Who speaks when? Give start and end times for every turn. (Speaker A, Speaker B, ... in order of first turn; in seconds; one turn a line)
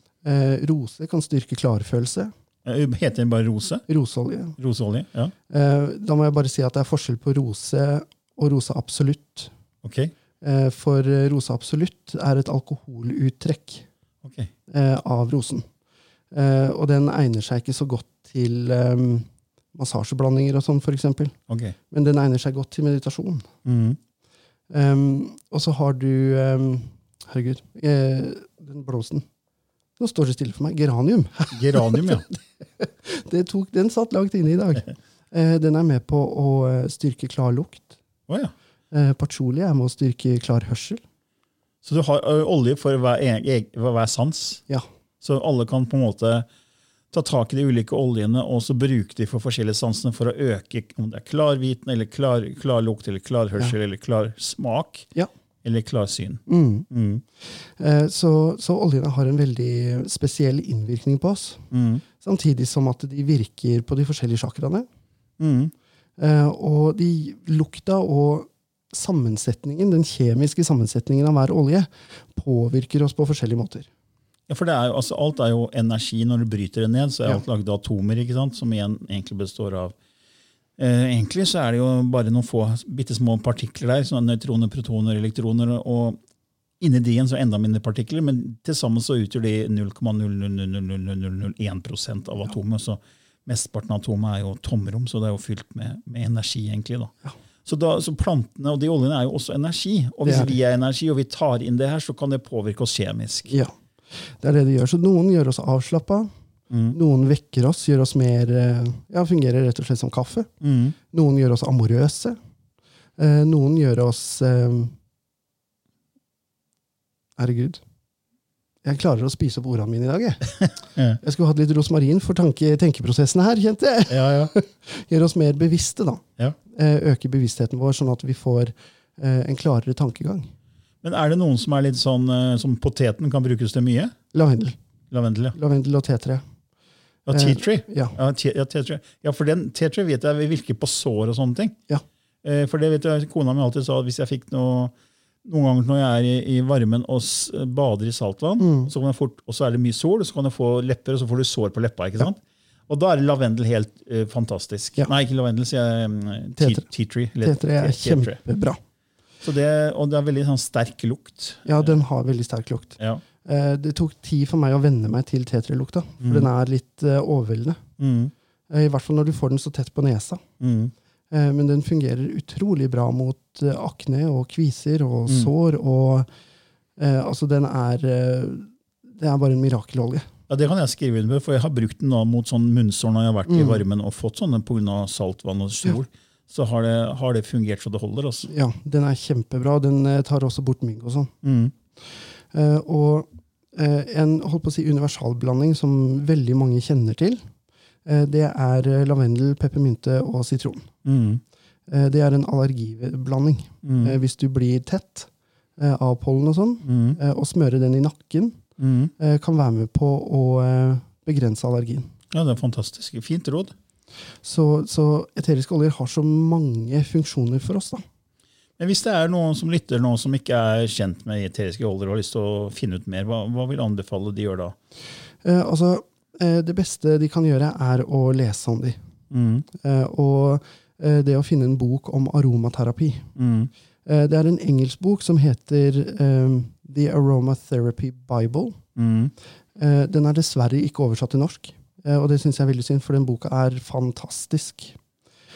Speaker A: 0.2-2.3
Speaker B: 2.6-3.8
Speaker A: 3.9-4.6
Speaker B: 4.6-5.3
Speaker A: 5.5-9.5
Speaker B: 9.8-10.1
Speaker A: 10.4-13.8
Speaker B: 14.2-14.5
Speaker A: 14.7-15.7
Speaker A: 16.3-21.4
Speaker B: 21.5-21.7
Speaker A: 21.9-23.5
Speaker B: 23.6-24.0
Speaker A: 24.7-29.2
Speaker A: 30.0-38.0
Speaker B: 31.5-32.3
Speaker B: 38.3-38.5
Speaker A: 38.9-41.0
Speaker B: 41.8-44.6
Speaker B: 45.2-46.5
Speaker B: 47.1-55.1
Speaker B: 55.6-57.2
Speaker A: 56.5-56.9
Speaker A: 57.4-64.9
Speaker B: 61.7-62.0
Speaker B: 65.4-65.7
Speaker A: 66.2-73.9
Speaker B: 74.5-79.9
Speaker B: 80.8-86.2
Speaker B: 86.8-97.1
Speaker B: 97.6-103.5
Speaker A: 100.2-100.6
Speaker A: 103.5-106.3
Speaker B: 106.7-107.0
Speaker A: 106.9-110.5
Speaker B: 110.6-111.0
Speaker A: 111.1-112.4
Speaker A: 113.2-114.9
Speaker A: 117.4-117.8
Speaker A: 118.8-120.5
Speaker B: 120.6-121.2
Speaker A: 121.2-130.5
Speaker B: 124.1-124.5
Speaker B: 131.0-134.1
Speaker A: 134.3-134.8
Speaker B: 135.1-135.6
Speaker A: 135.5-136.4
Speaker B: 137.3-141.7
Speaker A: 137.3-138.2
Speaker B: 142.4-144.9
Speaker B: 145.4-158.4
Speaker A: 148.6-148.9
Speaker A: 156.6-156.9
Speaker A: 157.4-158.8
Speaker B: 159.4-161.9
Speaker A: 161.7-167.8
Speaker B: 166.2-166.5
Speaker B: 168.0-168.3
Speaker A: 168.7-170.4
Speaker B: 170.6-170.9
Speaker A: 171.3-176.3
Speaker A: 177.0-180.3
Speaker B: 180.5-188.5
Speaker A: 183.5-183.8
Speaker A: 188.5-191.3
Speaker B: 191.4-191.7
Speaker A: 192.5-197.4
Speaker A: 198.0-200.9
Speaker B: 201.0-201.4
Speaker A: 201.9-208.6
Speaker B: 203.8-204.2
Speaker B: 206.8-207.2
Speaker B: 208.8-209.1
Speaker A: 209.2-212.1
Speaker B: 212.3-213.7
Speaker A: 214.4-218.0
Speaker B: 218.8-224.7
Speaker A: 225.4-229.0
Speaker B: 229.3-229.7
Speaker A: 229.7-233.3
Speaker B: 233.3-233.7
Speaker A: 234.0-238.8
Speaker B: 238.9-239.3
Speaker A: 239.8-245.0